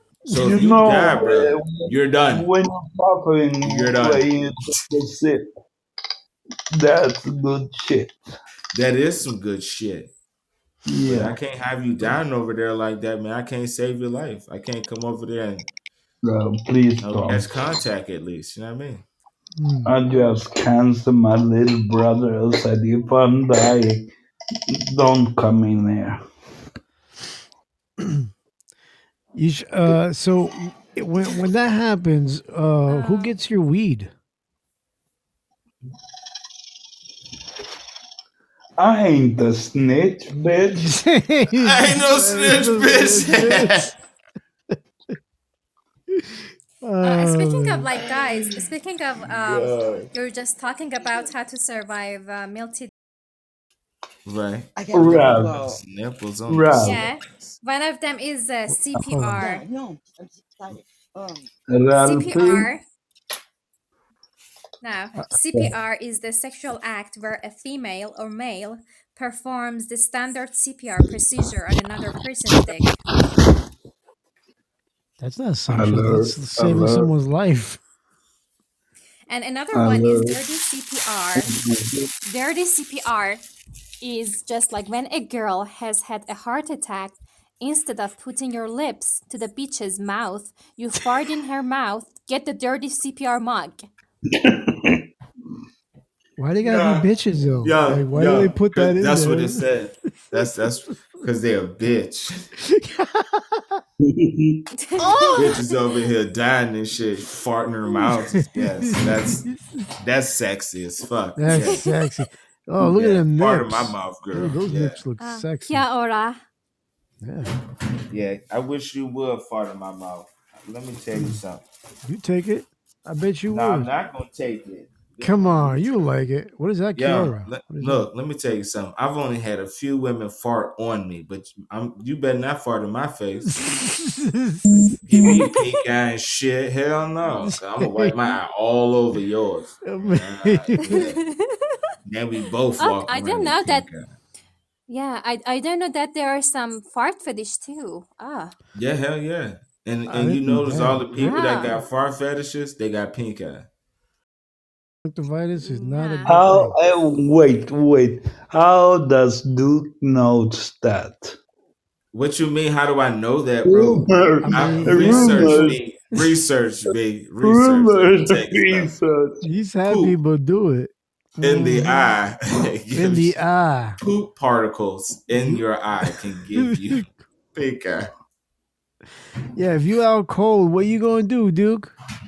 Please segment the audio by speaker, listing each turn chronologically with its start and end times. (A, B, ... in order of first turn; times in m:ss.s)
0:00.3-0:02.5 A
0:00.3-0:05.4 B
0:03.6-0:04.8 A
0:06.8-0:08.2 B
0:08.7-0:10.1 A
0:10.9-0:11.4 B
0:11.1-0:15.7 A
0:16.2-0:17.6 B
0:17.0-0:19.0 A
0:19.6-0:19.9 C
0:19.8-0:24.1 B
0:24.7-0:26.2 B
0:28.0-0:28.3 C
0:29.3-0:34.1 C
0:32.9-0:33.3 D
0:38.8-0:40.9 B
0:40.8-0:43.9 C
0:41.6-0:43.9 A
0:46.2-0:47.9 C
0:47.0-0:52.9 D
0:49.4-0:50.1 A
0:54.3-0:57.6 A
0:54.8-0:55.8 E
0:54.9-0:55.6 B
0:56.5-0:57.0 B
0:56.8-0:59.6 D
0:59.1-0:59.4 C
0:59.4-1:01.5 E
1:01.7-1:02.7 B
1:02.0-1:02.8 D
1:04.8-1:12.9 D
1:15.2-1:17.8 C
1:15.7-1:17.1 B
1:19.3-1:21.5 D
1:19.7-1:20.4 B
1:21.4-1:22.1 B
1:22.3-1:23.4 D
1:24.0-1:33.9 D
1:34.4-1:35.0 B
1:36.4-1:39.6 C
1:36.6-1:37.1 A
1:37.6-1:42.5 A
1:42.7-1:43.8 C
1:44.0-1:44.6 B
1:44.8-1:45.6 D
1:45.4-1:49.4 A
1:48.0-1:49.6 C
1:50.0-1:51.8 A
1:51.4-1:55.8 C
1:51.5-1:51.7 D
1:52.8-1:55.0 A
1:55.2-1:56.4 D
1:57.2-1:57.5 C
1:58.1-2:01.6 A
2:01.2-2:01.4 C
2:02.0-2:03.9 C
2:03.5-2:06.1 A
2:05.2-2:08.1 C
2:07.0-2:13.6 A
2:13.4-2:14.6 C
2:15.1-2:21.2 A
2:17.4-2:18.2 C
2:19.8-2:21.1 C
2:20.9-2:21.5 D
2:22.0-2:24.1 A
2:22.8-2:23.9 D
2:24.9-2:28.5 D
2:28.8-2:33.7 A
2:30.1-2:31.4 C
2:31.2-2:31.8 D
2:35.0-2:36.8 C
2:35.6-2:36.4 D
2:36.3-2:41.4 B
2:42.1-2:49.0 A
2:43.6-2:45.8 B
2:44.4-2:45.8 C
2:47.4-2:49.5 B
2:49.4-2:52.2 C
2:49.9-2:50.2 A
2:51.4-2:53.4 A
2:52.9-2:54.0 C
2:54.0-2:58.1 A
2:55.3-2:55.6 C
2:56.6-2:57.0 C
2:59.6-3:01.9 C